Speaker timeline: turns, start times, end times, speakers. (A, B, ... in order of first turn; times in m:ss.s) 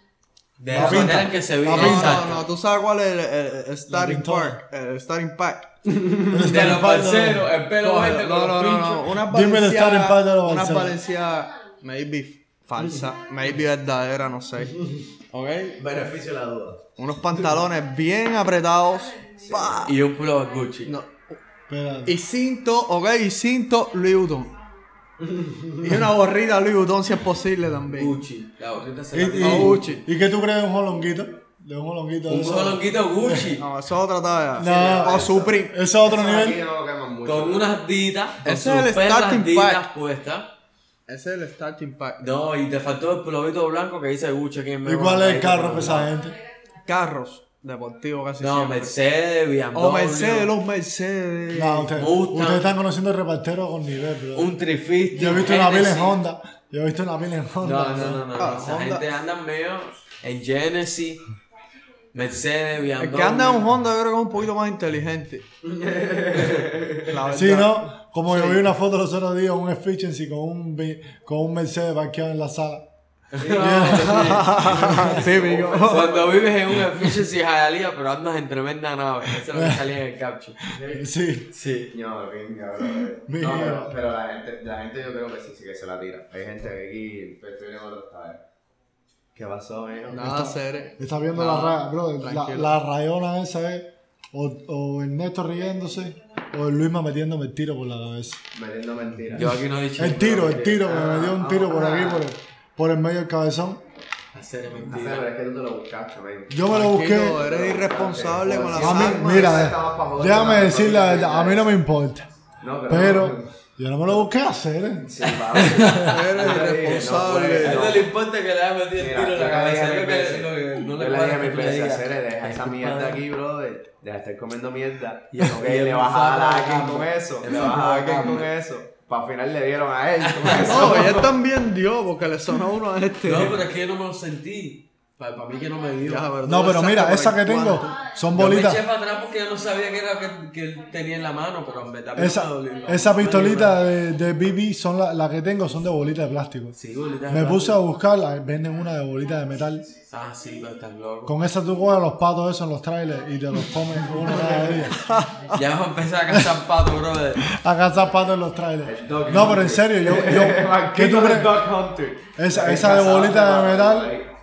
0:00.6-0:02.5 A
0:00.7-0:02.3 B
0:00.7-0:05.7 C
0:03.9-0:04.6 B
0:05.9-0:06.8 D
0:06.3-0:07.5 B
0:06.4-0:09.1 A
0:07.8-0:15.8 C
0:09.3-0:11.0 B
0:15.8-0:16.8 D
0:17.0-0:20.0 C
0:19.4-0:19.9 D
0:19.8-0:21.0 A
0:20.9-0:21.4 C
0:21.7-0:22.2 B
0:22.0-0:24.5 C
0:25.2-0:26.0 D
0:25.8-0:28.2 C
0:27.9-0:29.8 A
0:29.1-0:33.5 B
0:29.4-0:30.0 C
0:32.3-0:33.6 A
0:33.6-0:35.8 C
0:34.6-0:36.6 B
0:34.6-0:37.7 D
0:37.2-0:40.5 A
0:38.4-0:39.9 C
0:41.1-0:42.3 C
0:42.2-0:46.1 A
0:44.8-0:46.4 B
0:46.8-0:49.0 C
0:48.4-0:50.5 A
0:49.7-0:51.9 C
0:51.5-0:54.5 B
0:52.0-0:52.8 A
0:54.4-0:56.2 A
0:55.1-0:58.2 B
0:57.6-1:01.2 A
0:58.0-0:59.0 C
1:02.1-1:03.7 A
1:03.0-1:05.4 C
1:05.6-1:07.2 D
1:07.1-1:08.6 C
1:07.3-1:12.8 B
1:13.3-1:14.9 A
1:13.4-1:14.0 D
1:13.6-1:15.3 B
1:13.9-1:16.2 C
1:14.6-1:16.5 D
1:15.8-1:20.6 A
1:19.5-1:19.8 B
1:20.7-1:21.5 B
1:20.7-1:21.0 D
1:21.5-1:21.9 A
1:21.9-1:28.4 D
1:23.3-1:23.9 B
1:29.4-1:30.4 D
1:30.1-1:31.0 C
1:30.1-1:38.4 B
1:31.3-1:31.7 D
1:32.2-1:32.7 C
1:38.5-1:39.6 D
1:39.3-1:40.8 A
1:39.4-1:43.8 B
1:40.5-1:42.2 D
1:44.3-1:45.3 A
1:44.9-1:46.5 D
1:46.5-1:47.4 B
1:46.7-1:49.6 C
1:47.3-1:51.8 D
1:48.7-1:52.3 B
1:52.6-1:53.5 D
1:52.9-1:56.0 B
1:55.0-1:58.1 D
1:55.5-2:03.2 A
1:56.0-1:58.0 C
1:59.0-2:11.4 D
2:05.3-2:08.5 A
2:10.2-2:11.0 A
2:10.5-2:13.7 C
2:13.2-2:16.5 A
2:16.0-2:18.1 C
2:16.4-2:18.8 B
2:18.3-2:23.9 A
2:22.2-2:26.8 B
2:26.8-2:27.8 A
2:27.3-2:29.9 B
2:30.1-2:31.4 A
2:31.3-2:35.0 B
2:34.5-2:35.6 C
2:35.5-2:37.5 A
2:36.3-2:36.6 B
2:37.4-2:41.6 B
2:38.8-2:44.3 D
2:39.3-2:39.6 A
2:42.4-2:44.1 B